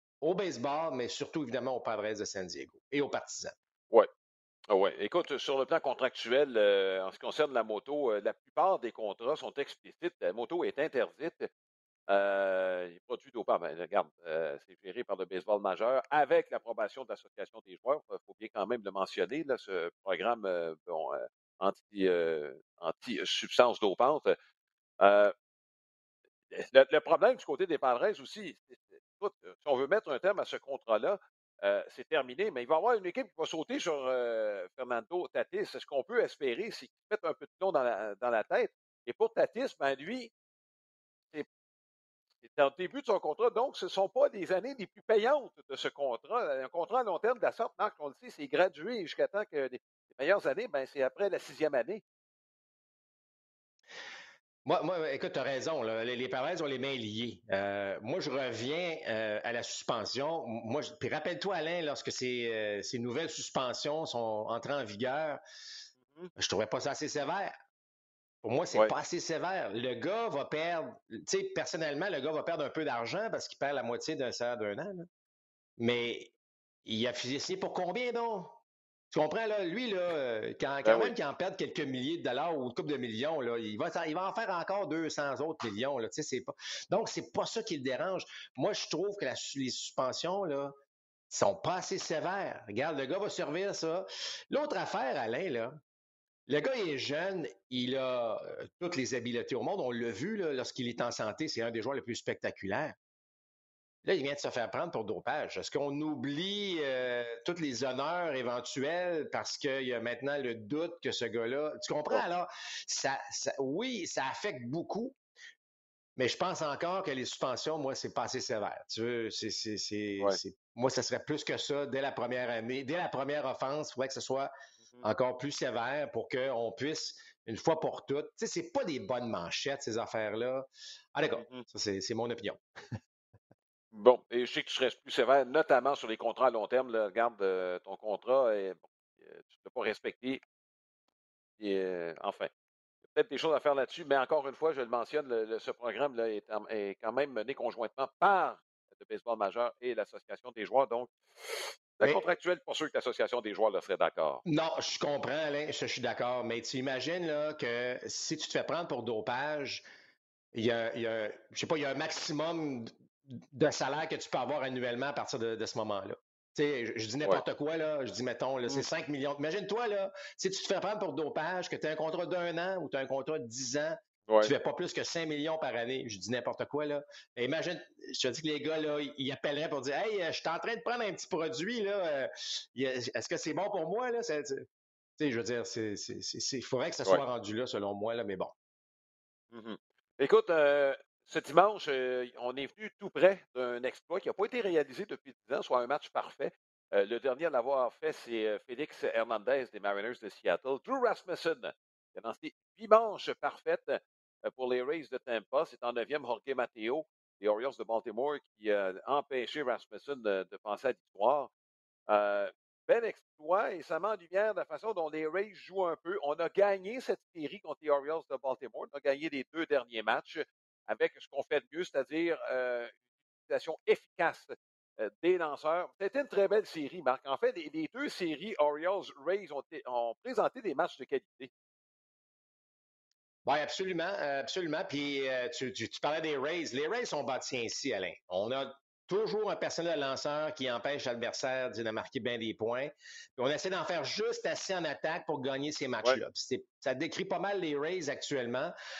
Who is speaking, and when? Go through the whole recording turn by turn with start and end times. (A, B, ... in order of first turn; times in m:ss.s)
0:00.2-0:03.6 A
0:04.7-0:11.5 B
0:12.1-0:24.4 B
0:25.0-0:25.3 B
0:26.5-0:40.3 B
0:42.4-0:52.0 B
0:54.6-1:05.4 A
1:06.0-1:06.3 B
1:06.4-1:07.6 A
1:08.4-1:15.1 A
1:15.8-1:16.3 A
1:16.8-1:18.6 A
1:19.1-1:30.7 A
1:20.8-1:21.1 B
1:31.3-1:35.8 A
1:36.5-1:43.0 A
1:44.0-1:55.2 A
1:56.2-2:04.5 A
2:05.0-2:12.6 A
2:11.4-2:11.6 B
2:13.9-2:20.4 B
2:21.6-2:22.5 B
2:23.2-2:34.4 B
2:34.4-2:39.8 A
2:40.5-3:04.7 A
3:05.2-3:08.6 A
3:09.5-3:31.5 B
3:32.1-3:43.0 B
3:43.5-3:51.5 B
3:53.4-4:08.7 A